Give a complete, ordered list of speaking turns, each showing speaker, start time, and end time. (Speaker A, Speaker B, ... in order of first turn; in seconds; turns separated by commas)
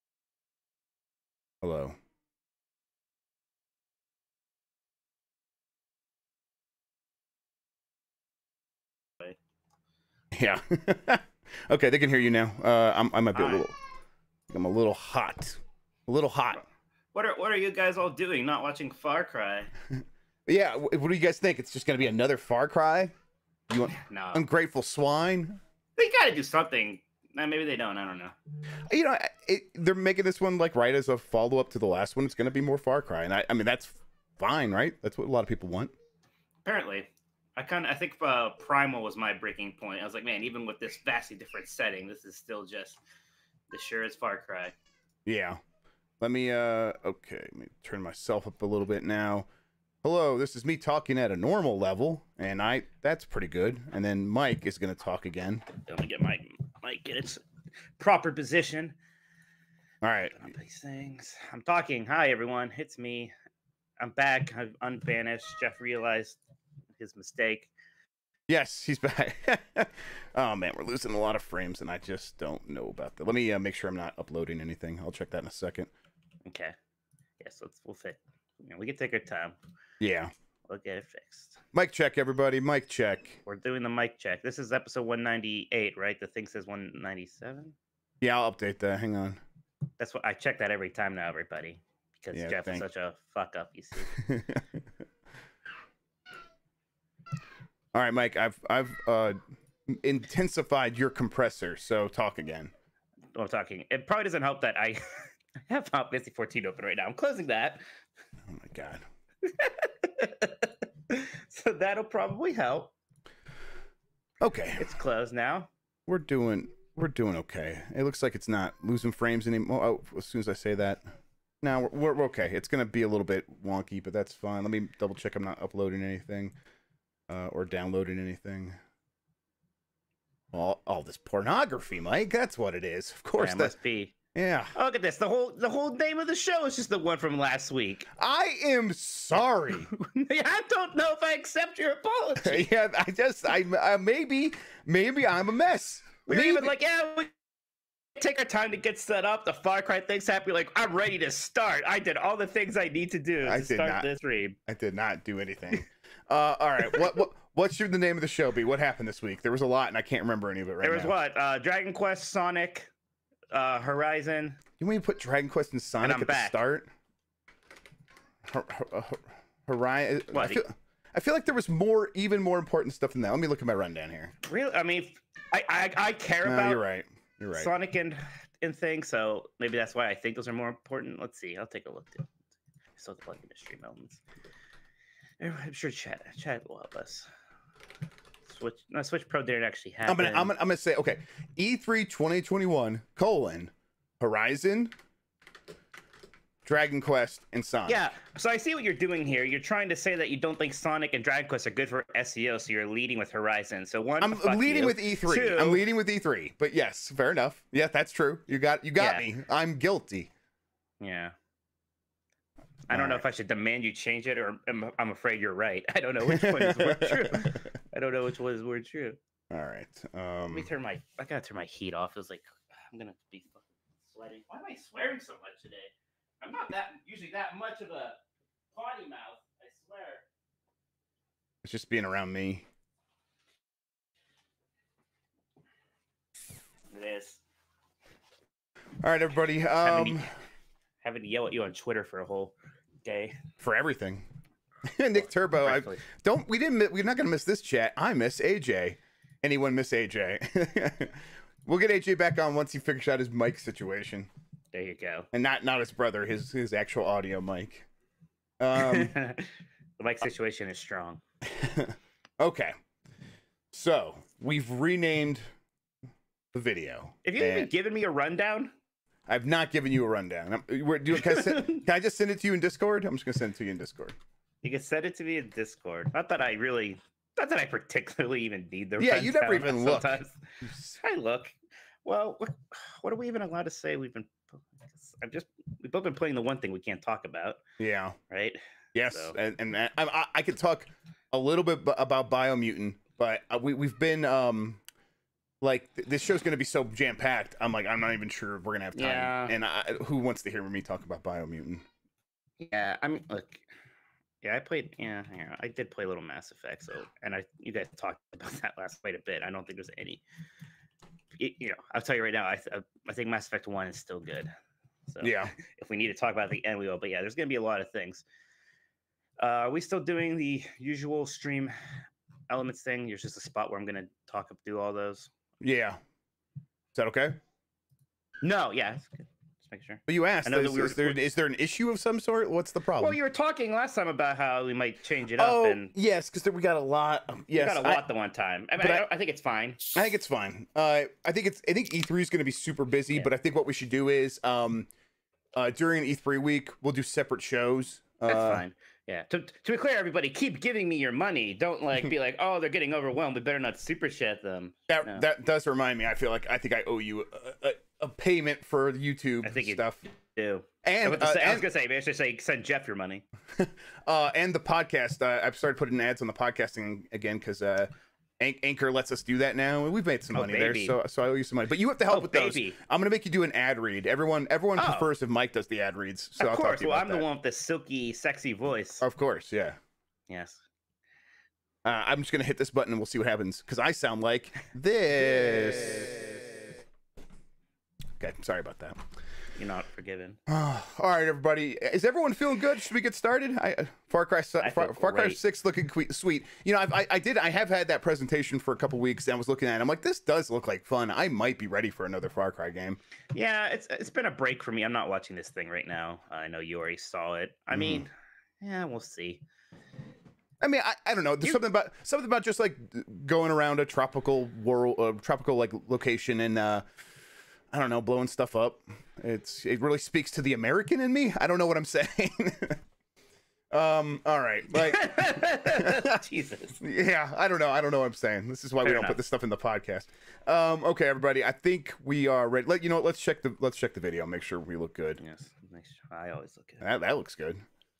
Speaker A: 1.6-2.0, Speaker A: 10.3-13.7, Speaker B: 13.3-13.6, Speaker A: 14.5-16.6, Speaker B: 17.1-19.7, Speaker A: 20.4-23.1, Speaker A: 23.7-25.6, Speaker B: 24.1-24.4, Speaker B: 26.0-28.3, Speaker A: 28.9-35.9, Speaker B: 36.6-43.0, Speaker B: 43.7-44.7, Speaker A: 45.2-45.6, Speaker A: 46.2-49.5, Speaker A: 50.0-55.6, Speaker B: 55.8-57.4, Speaker B: 58.0-59.0, Speaker A: 60.0-60.4, Speaker B: 60.3-63.3, Speaker B: 64.0-66.4, Speaker B: 67.0-67.7, Speaker A: 68.5-75.9, Speaker B: 76.5-76.7, Speaker B: 77.4-79.5, Speaker A: 80.0-80.3, Speaker B: 80.7-81.6, Speaker A: 81.7-83.4, Speaker B: 83.5-87.7, Speaker A: 88.2-89.4, Speaker B: 90.0-94.2, Speaker A: 92.3-92.8, Speaker A: 94.2-94.6, Speaker A: 97.9-102.7, Speaker B: 103.3-107.8, Speaker A: 108.5-109.0, Speaker B: 109.4-112.9, Speaker A: 114.4-114.8, Speaker B: 114.8-115.7, Speaker A: 116.1-121.0, Speaker A: 121.6-126.5, Speaker A: 127.3-128.8, Speaker A: 130.5-133.7, Speaker B: 133.4-134.1, Speaker A: 134.3-134.7, Speaker B: 134.7-138.1, Speaker A: 138.2-139.9, Speaker B: 139.9-142.7, Speaker A: 142.4-146.7, Speaker B: 146.3-147.3, Speaker B: 148.2-154.6, Speaker A: 153.4-154.1, Speaker A: 154.7-161.1, Speaker B: 160.8-162.9, Speaker B: 163.5-164.6, Speaker A: 164.8-166.9, Speaker B: 166.0-166.6, Speaker A: 168.4-174.3, Speaker B: 170.3-170.6, Speaker B: 174.4-176.8, Speaker A: 176.4-177.7, Speaker B: 177.5-182.3, Speaker B: 183.0-184.2, Speaker B: 185.4-187.3, Speaker B: 188.4-190.5, Speaker A: 190.1-194.9, Speaker A: 196.6-198.0, Speaker B: 197.9-205.9, Speaker A: 204.2-210.3, Speaker B: 209.0-209.3, Speaker B: 211.0-211.3, Speaker B: 212.9-219.2, Speaker A: 212.9-213.2, Speaker A: 216.2-217.6, Speaker A: 219.5-220.7, Speaker B: 220.5-228.2, Speaker B: 228.7-230.2, Speaker A: 231.6-232.7, Speaker B: 236.9-237.4, Speaker A: 239.0-240.3, Speaker B: 239.8-240.3, Speaker B: 241.0-243.4, Speaker A: 243.6-244.2, Speaker A: 244.8-254.3, Speaker B: 245.6-246.0, Speaker B: 254.7-255.3, Speaker A: 255.3-257.9, Speaker A: 258.6-259.1, Speaker B: 258.7-261.2, Speaker A: 261.5-262.7, Speaker A: 263.7-265.4, Speaker A: 266.5-267.7, Speaker B: 267.2-268.7, Speaker A: 269.3-274.1, Speaker B: 271.2-271.8, Speaker B: 274.6-287.6, Speaker A: 279.0-280.2, Speaker A: 287.8-288.2, Speaker B: 288.3-289.3, Speaker A: 288.9-294.8, Speaker A: 295.6-301.8, Speaker B: 298.9-299.5, Speaker B: 302.6-303.6, Speaker B: 304.4-310.2, Speaker B: 311.4-314.5, Speaker B: 315.1-318.2, Speaker A: 315.2-315.5, Speaker B: 319.4-321.7, Speaker B: 322.5-325.3, Speaker A: 325.6-326.0, Speaker A: 326.9-327.4, Speaker B: 328.4-331.2, Speaker A: 330.1-333.2, Speaker B: 333.0-335.9, Speaker A: 335.4-338.0, Speaker B: 337.5-340.1, Speaker A: 338.8-339.1, Speaker A: 339.9-344.9, Speaker A: 345.5-348.6, Speaker B: 348.3-355.2, Speaker A: 354.9-360.0, Speaker B: 359.4-359.8, Speaker B: 360.3-363.2, Speaker A: 360.8-361.6, Speaker A: 363.5-367.9, Speaker A: 368.4-377.2, Speaker B: 370.3-370.9, Speaker B: 372.1-372.8, Speaker B: 374.8-375.1, Speaker B: 376.4-379.0, Speaker A: 379.0-379.8, Speaker B: 380.3-380.6, Speaker A: 381.8-386.6, Speaker A: 388.2-389.0, Speaker B: 389.6-390.4, Speaker A: 390.5-403.0, Speaker B: 394.6-395.4, Speaker B: 403.3-409.4, Speaker A: 407.7-408.1, Speaker A: 410.6-416.9, Speaker A: 417.7-422.8, Speaker A: 423.7-426.2, Speaker B: 424.7-426.8, Speaker A: 426.8-435.2, Speaker B: 428.8-429.2, Speaker B: 435.2-436.8, Speaker A: 436.8-437.6